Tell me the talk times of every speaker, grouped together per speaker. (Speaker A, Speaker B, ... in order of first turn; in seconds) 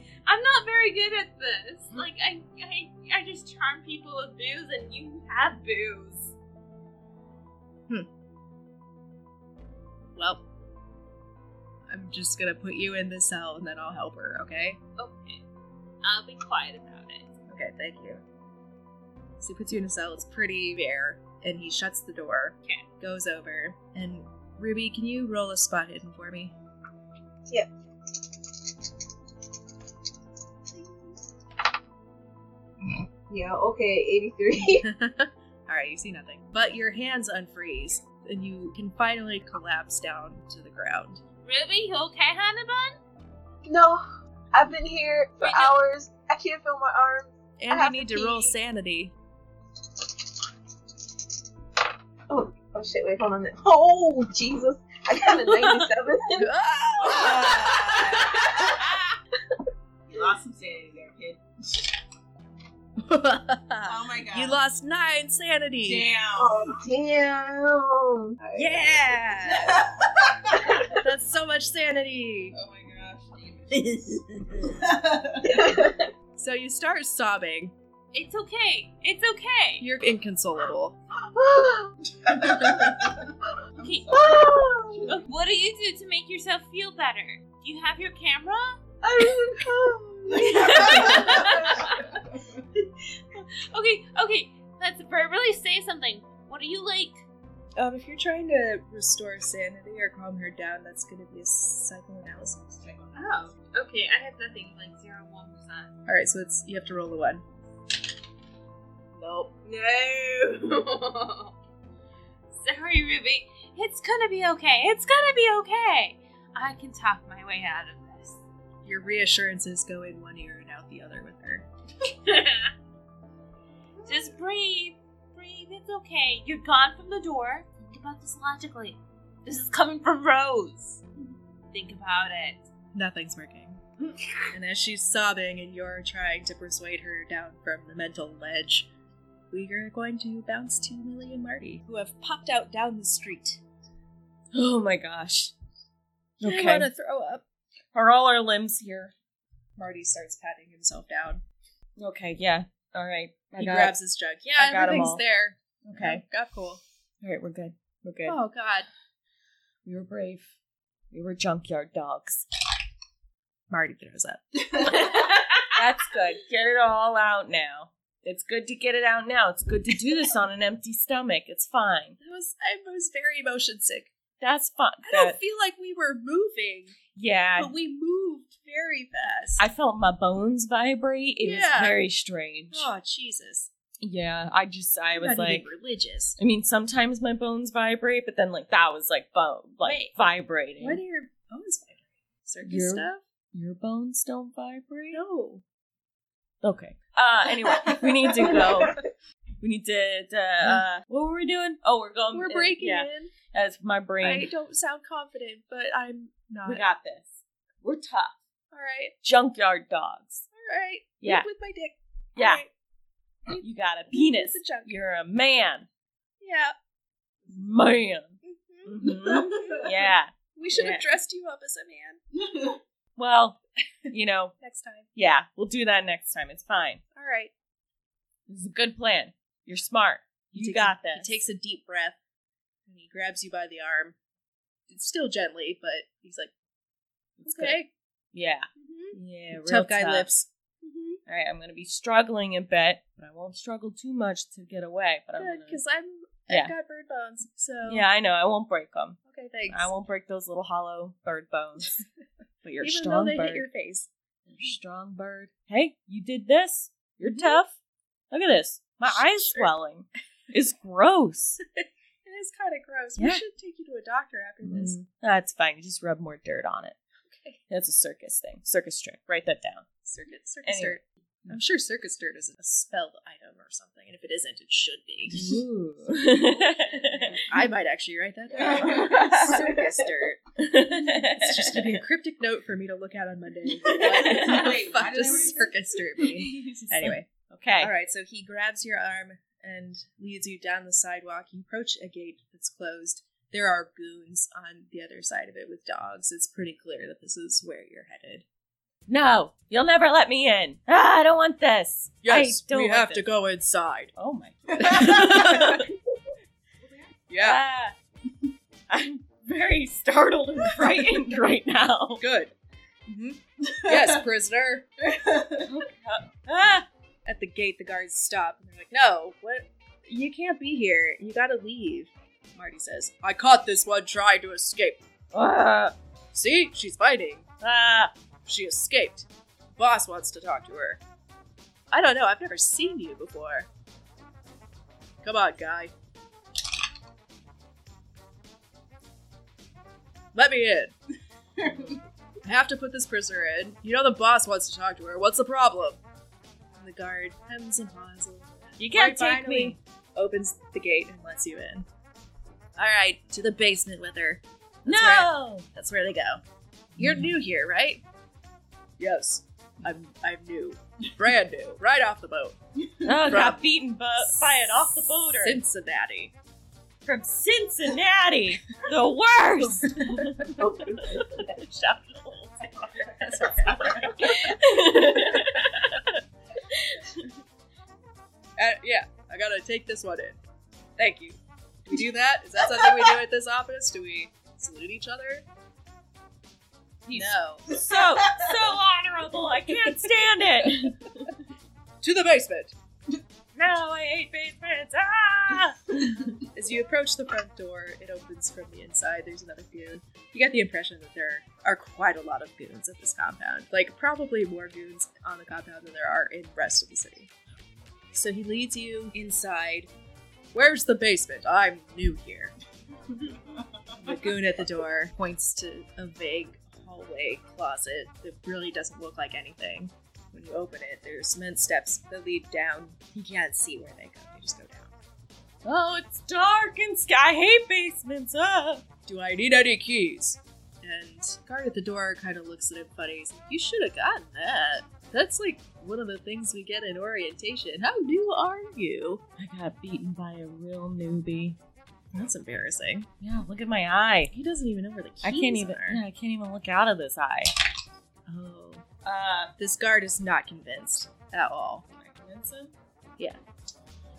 Speaker A: 0.2-6.3, 15.0-15.4, 16.0-17.3, 41.4-43.0, 45.4-45.8, 55.5-55.9, 78.1-79.8, 83.8-84.2, 85.1-88.8, 90.3-92.2, 93.3-97.2, 103.1-105.9, 109.2-111.5, 112.6-118.4, 122.0-122.7, 124.0-131.0, 131.7-132.7
Speaker B: 10.1-10.4, 11.9-14.8, 17.5-18.2, 19.4-26.5, 34.8-41.2, 47.6-49.1, 56.3-58.4, 63.0-66.1, 68.5-69.8, 70.9-72.5, 76.4-77.7, 79.8-81.0, 97.8-102.8, 106.1-107.4, 118.8-121.7, 132.9-133.8, 134.5-138.9, 139.5-143.6, 146.4-147.4, 149.8-151.4, 153.6-156.8, 158.2-158.9, 163.7-164.8, 165.7-166.4, 172.2-174.1, 175.0-177.0, 177.6-179.6, 181.4-182.0, 182.7-183.7, 185.1-186.4, 189.8-190.2, 190.8-193.2, 195.1-195.6, 202.3-203.3, 204.2-206.8, 208.7-209.1, 210.5-212.7, 213.5-214.9, 216.4-216.7, 218.4-219.9, 220.5-222.2, 224.1-225.1, 227.1-227.5, 230.5-232.2, 232.9-234.2, 234.9-236.5, 237.4-237.9, 238.8-241.2, 245.4-248.0, 249.2-249.9, 252.8-254.1, 257.2-257.6, 259.1-259.7, 261.8-265.0, 267.3-267.6, 270.0-275.6, 277.4-298.4, 302.2-304.1, 304.8-305.9, 307.3-307.6, 312.2-312.5, 313.1-314.9, 317.2-325.0, 326.3-327.5, 328.4-331.0, 331.9-333.7, 335.2-335.9, 340.3-340.9, 342.4-346.0, 346.8-351.9, 352.8-356.4, 357.0-358.0, 359.0-362.6, 363.2-363.6, 364.2-366.3, 373.2-374.5, 378.6-380.4, 381.0-385.4, 387.1-387.7, 392.0-392.7, 396.5-407.3, 408.1-409.9, 410.5-412.5, 414.0-424.9, 429.1-439.2, 442.1-443.1, 444.3-446.0, 448.3-448.8, 449.6-451.8
Speaker C: 33.3-34.9, 43.6-48.5, 52.3-56.5, 57.5-58.7, 66.4-68.7, 70.6-70.9, 75.4-76.1, 81.3-81.9, 82.5-83.1, 84.1-85.0, 89.0-91.9
Speaker D: 57.0-58.5, 60.1-61.9, 63.8-64.6, 65.8-66.7, 69.4-70.7, 72.5-75.8, 82.2-83.2, 83.8-85.3, 90.7-92.0, 102.8-103.5, 222.4-222.8, 278.5-279.5, 284.0-285.8, 305.0-305.8, 306.8-307.1, 313.7-314.2, 315.0-315.7, 387.7-388.5
Speaker E: 144.5-145.5, 146.4-146.9, 147.9-149.1, 152.0-154.0, 154.6-155.2, 155.8-156.2, 157.2-158.4, 159.8-160.5, 161.1-162.4, 165.9-172.2, 174.4-175.4, 177.1-177.7, 179.6-182.9, 184.0-185.7, 186.4-191.0, 192.7-195.2, 196.6-199.0, 199.6-204.5, 206.6-208.4, 209.2-210.4, 211.2-211.5, 212.3-212.6, 213.6-215.9, 217.5-221.1, 223.2-224.5, 225.2-227.0, 228.5-231.3, 237.4-237.8, 238.3-240.3, 241.2-245.8, 247.8-252.0, 252.6-253.7, 254.5-257.7, 258.3-261.6, 263.2-263.4, 264.6-267.0, 267.7-269.9, 270.6-271.6, 275.3-277.5, 279.0-279.6, 280.6-282.0, 284.0-285.3, 286.1-287.9, 299.1-303.3, 304.1-305.9, 307.4-307.9, 308.9-312.2, 315.6-316.9, 325.3-325.9, 327.6-328.1, 348.8-349.8, 354.9-355.6, 357.0-357.3, 363.0-365.6, 367.0-377.3, 387.0-391.4, 393.5-396.2, 425.6-428.8, 439.4-441.6, 443.2-444.3, 445.2-447.5, 449.0-449.5, 451.9-452.7